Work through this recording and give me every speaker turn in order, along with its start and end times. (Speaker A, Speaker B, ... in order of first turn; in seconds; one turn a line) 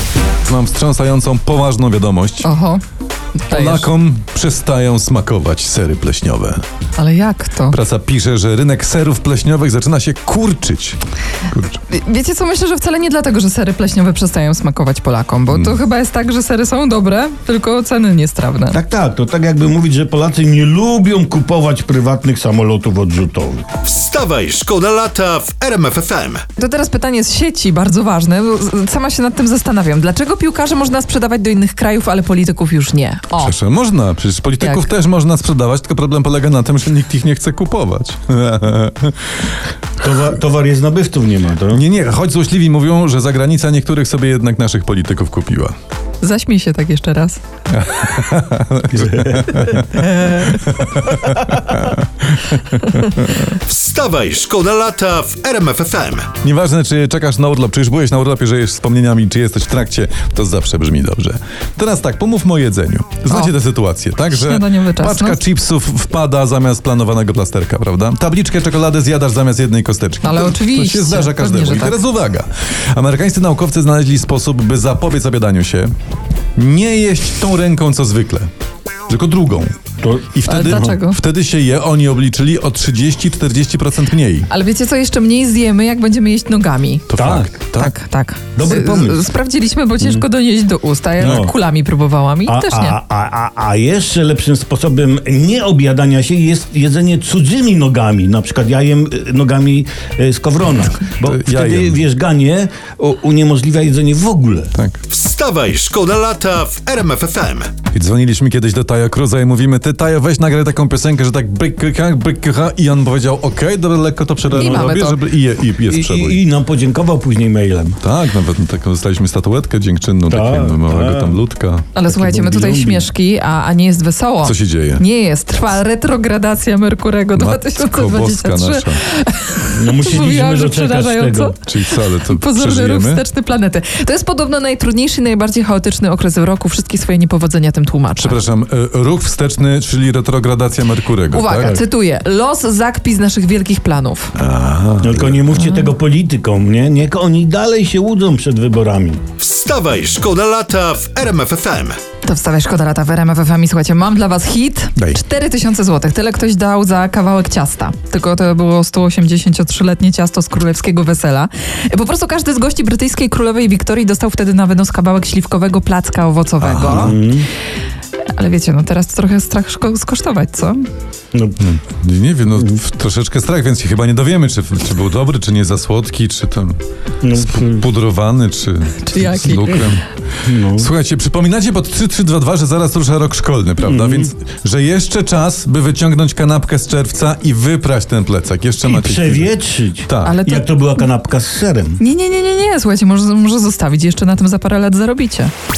Speaker A: 0.4-2.5
Speaker B: 2.4-2.8
Speaker B: 3.4-3.9
Speaker A: 3.5-6.6
Speaker B: 7.0-7.8
Speaker A: 7.7-11.8
Speaker B: 11.9-18.8
Speaker A: 15.5-15.8
Speaker C: 18.7-23.7
Speaker D: 23.8-26.5
Speaker B: 26.6-33.5
Speaker A: 33.4-39.5
Speaker B: 34.6-34.9
Speaker C: 40.0-41.8
Speaker A: 41.7-45.7
Speaker B: 46.2-47.4
Speaker A: 47.7-53.6
Speaker C: 49.1-49.4
Speaker B: 49.9-50.5
Speaker D: 53.6-56.3
Speaker A: 56.3-75.9
Speaker B: 63.3-63.5
Speaker B: 64.3-65.4
Speaker B: 70.2-72.0
Speaker A: 76.6-78.5
Speaker A: 79.1-79.8
Speaker C: 80.0-80.9
Speaker A: 80.3-84.5
Speaker B: 80.5-81.2
Speaker B: 84.5-87.1
Speaker A: 87.1-88.0
Speaker C: 87.2-87.5
Speaker B: 87.7-93.0
Speaker C: 88.5-89.3
Speaker C: 91.2-91.5
Speaker C: 92.5-104.7
Speaker A: 101.2-102.0
Speaker A: 104.8-105.0
Speaker D: 105.1-107.8
Speaker A: 107.8-116.4
Speaker B: 114.5-115.2
Speaker C: 114.5-114.9
Speaker C: 115.8-118.0
Speaker A: 118.0-121.9
Speaker C: 120.3-121.4
Speaker B: 121.9-138.4
Speaker C: 122.1-123.1
Speaker A: 124.4-125.0
Speaker A: 127.4-129.0
Speaker C: 129.7-131.6
Speaker A: 131.6-133.2
Speaker A: 138.2-141.8
Speaker B: 141.3-144.3
Speaker A: 144.4-145.6
Speaker C: 145.0-149.2
Speaker B: 145.6-145.9
Speaker D: 149.4-152.0
Speaker B: 152.2-167.2
Speaker A: 166.6-167.2
Speaker C: 167.1-167.5
Speaker B: 168.3-170.9
Speaker C: 171.3-171.6
Speaker A: 171.6-176.8
Speaker C: 177.2-177.8
Speaker A: 177.3-190.4
Speaker B: 179.0-180.0
Speaker C: 180.4-180.9
Speaker C: 183.8-184.3
Speaker C: 188.8-192.0
Speaker B: 190.2-191.0
Speaker B: 192.0-195.5